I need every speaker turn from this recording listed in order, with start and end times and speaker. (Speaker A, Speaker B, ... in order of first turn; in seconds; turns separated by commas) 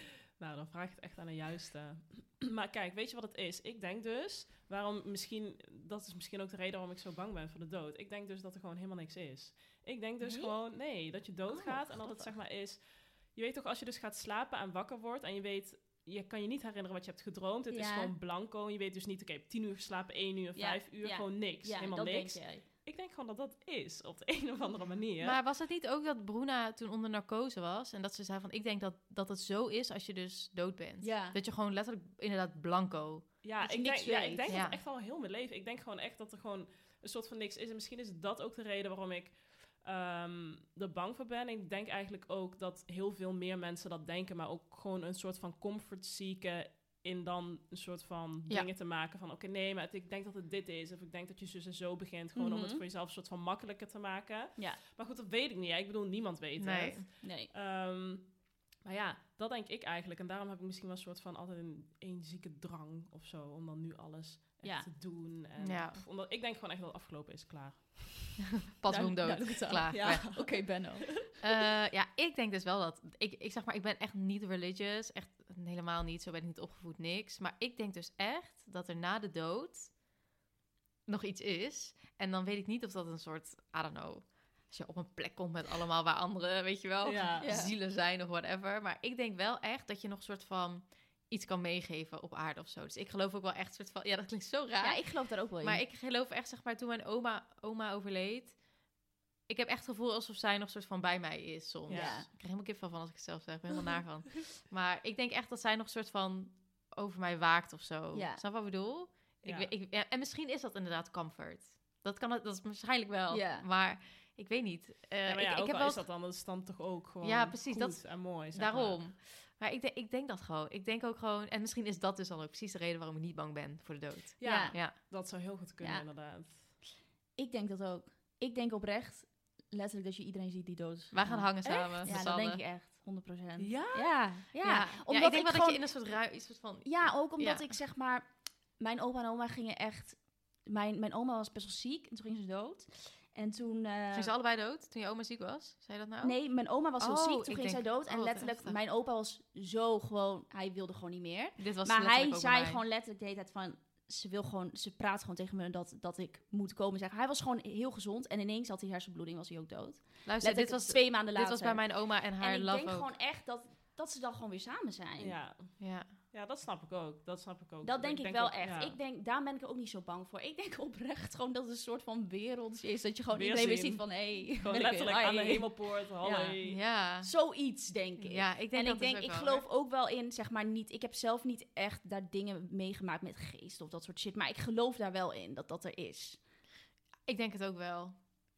Speaker A: 0.4-25.4, Speaker B: 10.2-10.5, Speaker B: 11.5-12.3, Speaker B: 17.7-18.1, Speaker B: 20.6-22.6, Speaker C: 25.2-33.3, Speaker B: 31.0-31.4, Speaker A: 33.4-68.4, Speaker B: 33.6-34.5, Speaker C: 34.5-34.8, Speaker B: 52.4-52.8, Speaker C: 56.6-57.0, Speaker B: 57.2-57.5, Speaker B: 64.6-64.9, Speaker C: 65.6-66.0, Speaker C: 68.7-70.2, Speaker B: 68.9-71.1, Speaker A: 70.0-71.3, Speaker C: 71.4-80.0, Speaker C: 81.1-98.6, Speaker A: 87.0-87.5, Speaker B: 87.4-87.7, Speaker B: 94.8-95.8, Speaker C: 99.5-116.0, Speaker A: 101.9-102.2, Speaker B: 101.9-102.3, Speaker B: 108.1-108.4, Speaker A: 109.4-109.7, Speaker B: 113.3-113.7, Speaker A: 115.2-119.0, Speaker C: 117.2-124.9, Speaker A: 124.4-126.7, Speaker B: 124.4-125.3, Speaker B: 127.3-135.8, Speaker C: 131.1-132.6, Speaker A: 131.6-132.2, Speaker A: 133.6-134.2, Speaker C: 134.6-137.7, Speaker B: 136.8-144.3, Speaker C: 144.1-146.4, Speaker B: 146.2-165.4, Speaker C: 147.0-148.8, Speaker C: 151.6-152.8, Speaker C: 160.2-163.1, Speaker A: 165.2-168.9, Speaker C: 165.8-166.1, Speaker B: 167.8-176.6, Speaker A: 173.3-176.8, Speaker C: 176.6-177.3, Speaker B: 177.2-186.4, Speaker C: 178.2-179.6, Speaker C: 187.2-188.3